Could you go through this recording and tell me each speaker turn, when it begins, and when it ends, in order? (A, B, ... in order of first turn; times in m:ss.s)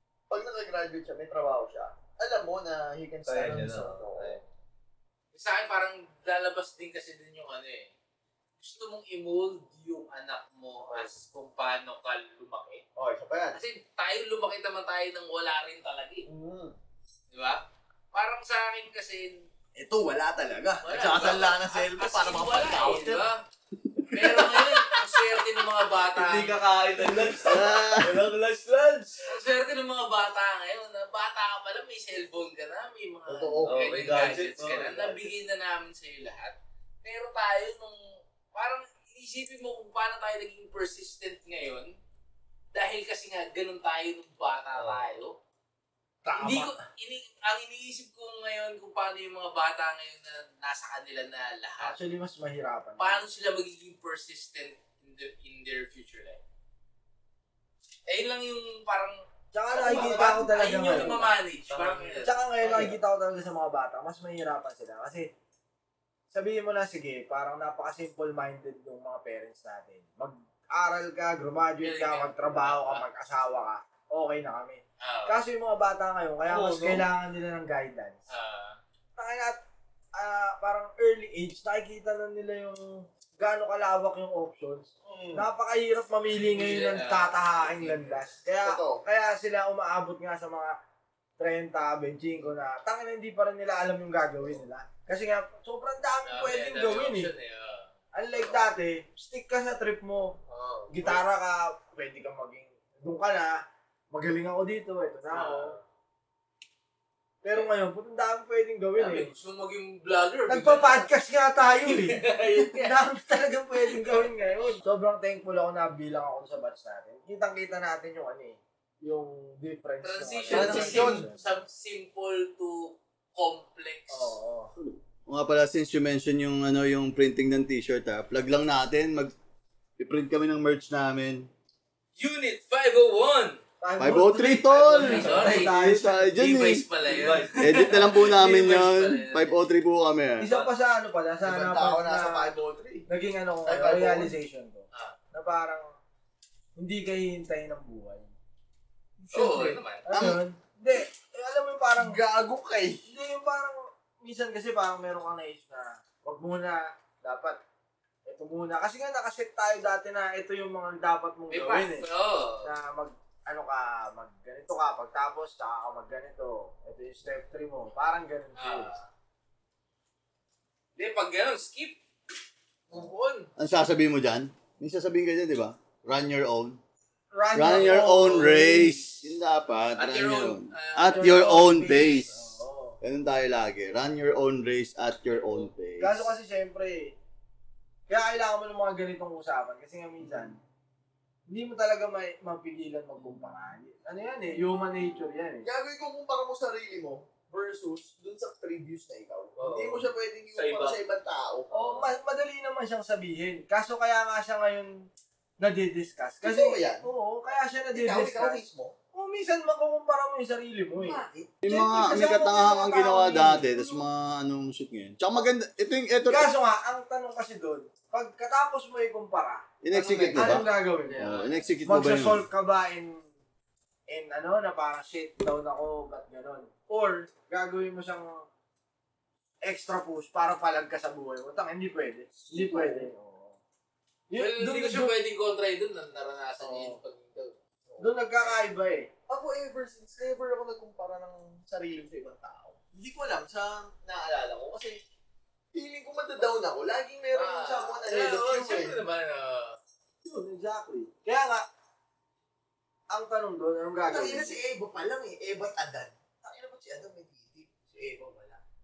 0:00.3-0:04.4 A
0:03.3-0:04.5 B
0:05.3-0:07.9 C
0:08.6-0:12.8 C
0:13.0-0:13.6 A
0:13.5-0:16.3 C
0:16.3-0:16.8 A
0:17.3-0:17.6 C
0:18.1-0:19.4 C
0:19.8-0:23.3 A
0:20.8-0:23.4 C
0:24.1-0:26.6 C
0:26.1-0:29.3 B
0:27.4-0:28.2 D
0:29.3-0:38.0 C
0:33.3-0:34.0 A
0:33.6-0:35.3 B
0:38.5-0:42.0 C
0:42.7-0:45.4 C
0:44.8-0:45.2 B
0:46.2-0:46.7 E
0:46.4-0:52.0 C
0:51.8-0:53.2 E
0:53.0-0:56.4 C
0:58.1-0:59.2 C
0:59.5-1:01.3 E
0:59.7-1:02.3 C
0:59.8-1:01.1 A
0:59.8-1:01.1 B
1:01.7-1:02.7 B
1:02.2-1:05.3 E
1:02.6-1:02.9 A
1:06.3-1:18.2 E
1:11.8-1:13.0 C
1:15.0-1:15.4 C
1:16.5-1:17.1 A
1:18.3-1:18.8 C
1:19.2-1:19.6 E
1:20.2-1:30.8 E
1:25.0-1:25.5 A
1:26.4-1:28.3 C
1:28.6-1:29.0 A
1:31.4-1:37.3 E
1:36.3-1:38.6 C
1:38.1-1:40.4 E
1:40.5-1:41.2 C
1:40.9-1:43.6 E
1:44.1-1:45.8 E
1:45.3-1:45.8 C
1:47.4-1:49.3 E
1:49.0-1:51.1 C
1:50.5-2:01.4 E
1:51.8-1:53.0 C
2:00.0-2:04.4 C
2:00.5-2:01.2 A
2:04.1-2:04.7 E
2:04.8-2:09.3 D
2:10.0-2:11.5 D
2:12.2-2:13.6 C
2:13.8-2:16.2 E
2:14.0-2:16.9 D
2:15.0-2:19.6 C
2:17.0-2:18.1 B
2:17.6-2:20.5 D
2:20.4-2:22.5 E
2:20.4-2:20.7 B
2:21.4-2:23.1 A
2:23.1-2:25.9 E
2:23.7-2:24.3 A
2:26.8-2:28.3 E
2:29.3-2:32.2 E
2:29.3-2:30.1 C
2:32.0-2:33.0 A
2:33.1-2:37.6 E
2:38.3-2:42.1 E
2:41.5-2:42.7 C
2:42.6-2:49.0 E
2:48.6-2:49.1 C
2:51.0-2:52.0 C
2:52.9-2:53.5 C
2:53.6-2:56.8 D
2:57.3-2:59.0 E
2:57.5-3:02.4 D
3:00.0-3:02.3 C
3:01.1-3:03.0 E
3:03.0-3:06.3 D
3:06.0-3:07.2 E
3:08.1-3:10.6 E
3:11.5-3:15.7 E
3:15.6-3:21.7 A
3:19.6-3:21.0 B
3:21.7-3:22.1 B
3:21.7-3:25.1 E
3:25.6-3:28.6 E
3:26.4-3:27.1 A
3:27.9-3:29.0 A
3:29.1-3:34.0 E
3:31.0-3:31.6 A
3:31.6-3:36.5 D
3:36.3-3:41.3 E
3:39.8-3:40.7 D
3:40.1-3:40.6 A
3:41.1-3:41.8 C
3:41.2-3:42.5 D
3:41.8-3:43.3 E
3:44.1-3:48.5 E
3:49.6-3:53.6 E
3:52.4-3:53.1 A
3:54.3-3:55.2 E
3:54.4-3:57.6 C
3:56.6-3:57.0 E
3:58.0-3:59.1 E
3:59.3-4:05.0 A
4:05.7-4:09.0 A
4:07.3-4:09.8 C
4:10.2-4:11.6 E
4:13.1-4:14.6 E
4:14.0-4:18.6 A